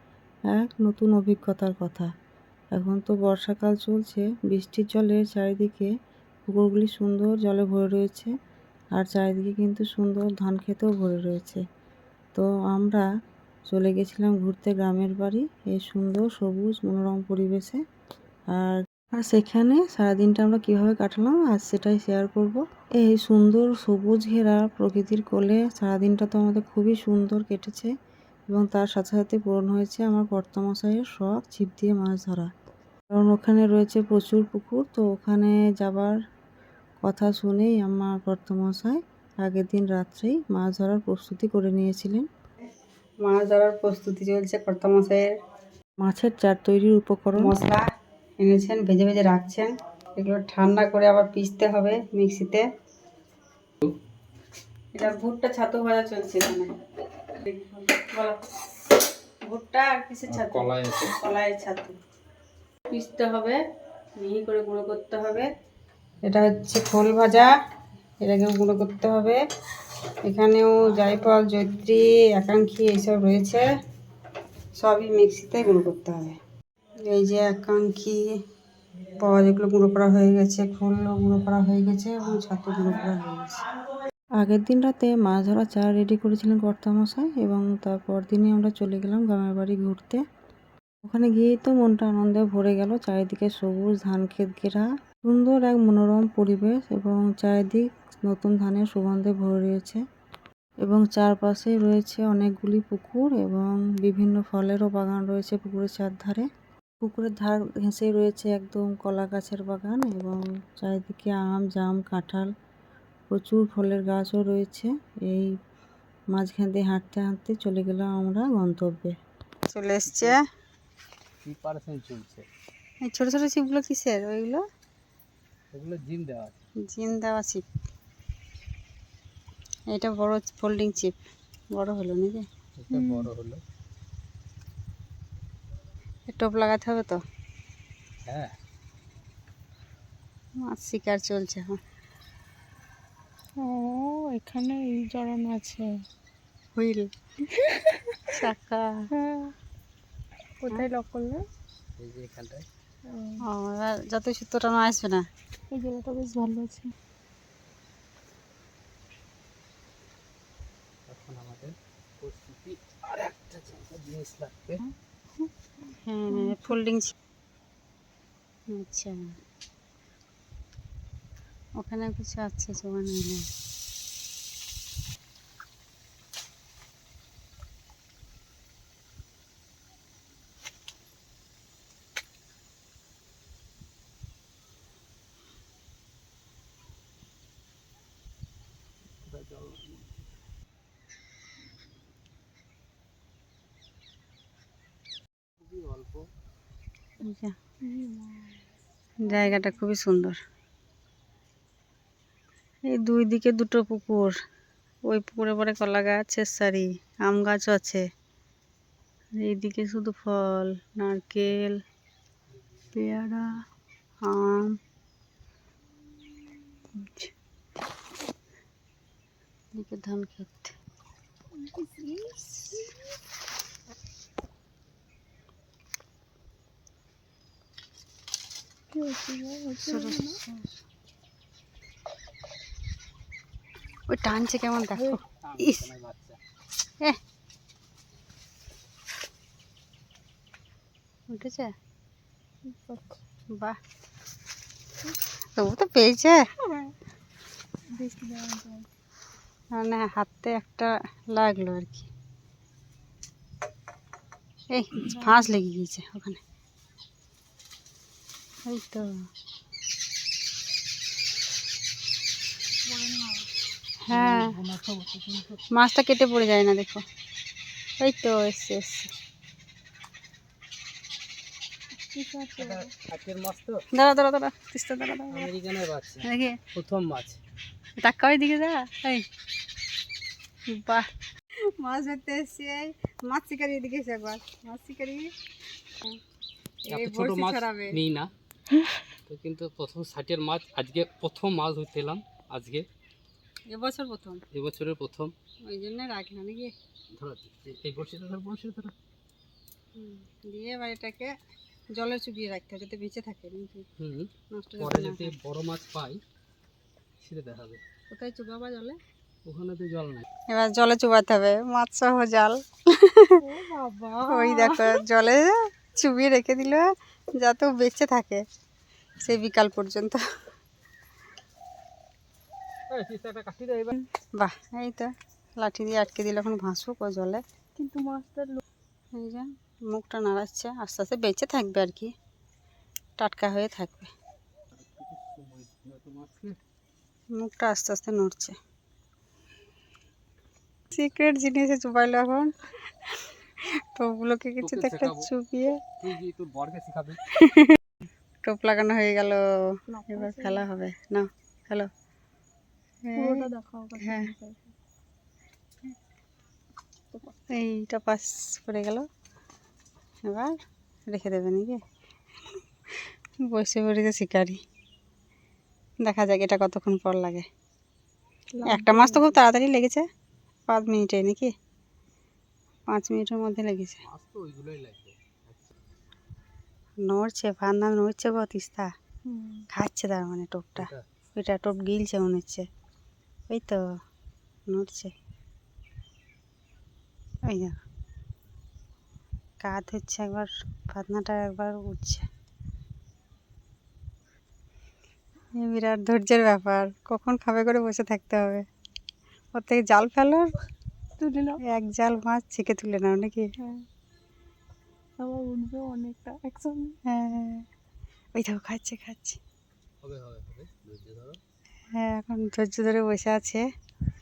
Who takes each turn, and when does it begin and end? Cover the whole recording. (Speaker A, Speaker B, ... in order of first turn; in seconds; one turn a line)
Speaker A: 0.5-2.1
Speaker A: 2.7-5.9
Speaker A: 6.5-8.3
Speaker A: 8.9-11.6
Speaker A: 12.3-13.1
Speaker A: 13.7-17.8
Speaker A: 18.5-27.9
Speaker A: 28.5-32.5
Speaker A: 33.1-36.1
Speaker A: 37.0-42.3
Speaker B: 43.2-45.3
Speaker A: 46.0-47.5
Speaker B: 47.4-47.9
Speaker B: 48.4-52.7
Speaker B: 54.9-56.8
Speaker B: 57.4-58.6
Speaker B: 59.4-62.0
Speaker C: 60.3-61.2
Speaker B: 62.9-63.6
Speaker B: 64.2-65.5
Speaker B: 66.2-67.5
Speaker B: 68.2-69.4
Speaker B: 70.2-73.7
Speaker B: 74.8-76.4
Speaker B: 77.0-78.2
Speaker B: 79.2-83.6
Speaker A: 84.4-90.2
Speaker A: 91.1-100.0
Speaker A: 100.8-106.5
Speaker A: 107.0-112.5
Speaker A: 113.3-115.5
Speaker A: 116.3-119.2
Speaker B: 119.7-120.4
Speaker C: 120.0-120.4
Speaker C: 121.4-122.5
Speaker B: 123.0-124.6
Speaker C: 125.7-126.6
Speaker B: 126.8-127.6
Speaker B: 129.9-131.2
Speaker B: 131.7-132.5
Speaker C: 132.8-133.6
Speaker D: 132.9-133.3
Speaker B: 136.3-137.2
Speaker C: 138.3-138.5
Speaker B: 140.6-141.8
Speaker D: 143.6-145.9
Speaker B: 146.8-147.1
Speaker D: 147.5-148.4
Speaker B: 148.3-149.1
Speaker D: 149.1-149.5
Speaker D: 150.6-151.4
Speaker C: 152.0-152.7
Speaker D: 153.1-153.4
Speaker B: 153.4-155.2
Speaker D: 155.7-156.9
Speaker C: 161.1-164.8
Speaker D: 165.4-166.8
Speaker B: 166.1-167.1
Speaker B: 168.7-169.4
Speaker B: 171.8-173.5
Speaker C: 189.2-190.1
Speaker C: 195.6-196.2
Speaker B: 197.2-197.6
Speaker D: 197.8-198.6
Speaker B: 199.2-200.4
Speaker D: 199.2-199.8
Speaker B: 202.9-204.3
Speaker B: 205.1-208.0
Speaker B: 209.4-211.8
Speaker C: 212.8-213.6
Speaker B: 212.9-213.6
Speaker B: 214.2-214.7
Speaker B: 217.0-217.3
Speaker B: 219.7-220.7
Speaker D: 221.6-222.9
Speaker D: 228.9-230.4
Speaker B: 229.8-230.7
Speaker B: 234.1-235.8
Speaker C: 235.3-236.4
Speaker B: 241.3-241.7
Speaker D: 242.7-243.2
Speaker B: 245.6-246.4
Speaker D: 246.6-246.9
Speaker D: 247.9-248.9
Speaker B: 249.7-252.1
Speaker B: 254.7-256.4
Speaker D: 255.1-255.5
Speaker B: 258.6-259.3
Speaker D: 262.9-263.5
Speaker B: 264.0-264.6
Speaker C: 264.1-265.6
Speaker B: 265.7-267.0
Speaker B: 268.0-269.1
Speaker D: 272.1-272.9
Speaker C: 272.6-273.8
Speaker B: 273.9-275.5
Speaker C: 275.3-277.4
Speaker B: 276.2-276.6
Speaker B: 278.0-279.2
Speaker B: 280.7-285.3
Speaker B: 286.8-288.0
Speaker C: 286.9-288.3
Speaker C: 289.3-292.8
Speaker B: 293.7-294.4
Speaker C: 294.5-295.3
Speaker B: 295.6-296.7
Speaker C: 297.1-298.9
Speaker B: 299.9-301.3
Speaker B: 301.9-303.9
Speaker C: 304.0-306.2
Speaker B: 304.5-305.3
Speaker C: 307.2-307.8
Speaker B: 308.1-309.0
Speaker C: 309.4-310.2
Speaker B: 310.5-313.4
Speaker D: 313.4-315.0
Speaker B: 314.3-318.4
Speaker B: 319.2-320.2
Speaker C: 322.9-324.0
Speaker B: 324.4-327.4
Speaker D: 327.8-328.6
Speaker B: 329.1-332.1
Speaker B: 333.2-334.1
Speaker C: 334.7-336.6
Speaker B: 337.3-338.6
Speaker B: 340.9-345.8
Speaker C: 344.6-345.3
Speaker C: 346.0-347.3
Speaker B: 347.4-347.8
Speaker B: 348.4-351.9
Speaker D: 349.9-350.7
Speaker B: 353.1-353.5
Speaker D: 353.1-354.7
Speaker B: 354.0-354.3
Speaker B: 357.5-359.1
Speaker B: 360.2-360.5
Speaker B: 361.1-361.8
Speaker B: 363.4-364.6
Speaker B: 366.0-367.5
Speaker D: 368.5-369.3
Speaker B: 368.6-370.1
Speaker B: 370.7-371.5
Speaker B: 372.9-374.0
Speaker C: 374.0-375.7
Speaker B: 377.0-378.9
Speaker D: 379.3-379.7
Speaker B: 379.7-382.7
Speaker C: 380.8-381.0
Speaker B: 383.5-383.9
Speaker B: 384.7-385.1
Speaker B: 387.5-387.8
Speaker B: 389.6-392.3
Speaker B: 395.6-398.6
Speaker B: 399.5-400.5
Speaker D: 401.2-401.6
Speaker B: 401.6-403.5
Speaker D: 403.6-403.8
Speaker D: 405.2-407.0
Speaker B: 407.1-407.6
Speaker B: 408.3-409.4
Speaker C: 410.0-411.4
Speaker B: 411.9-413.7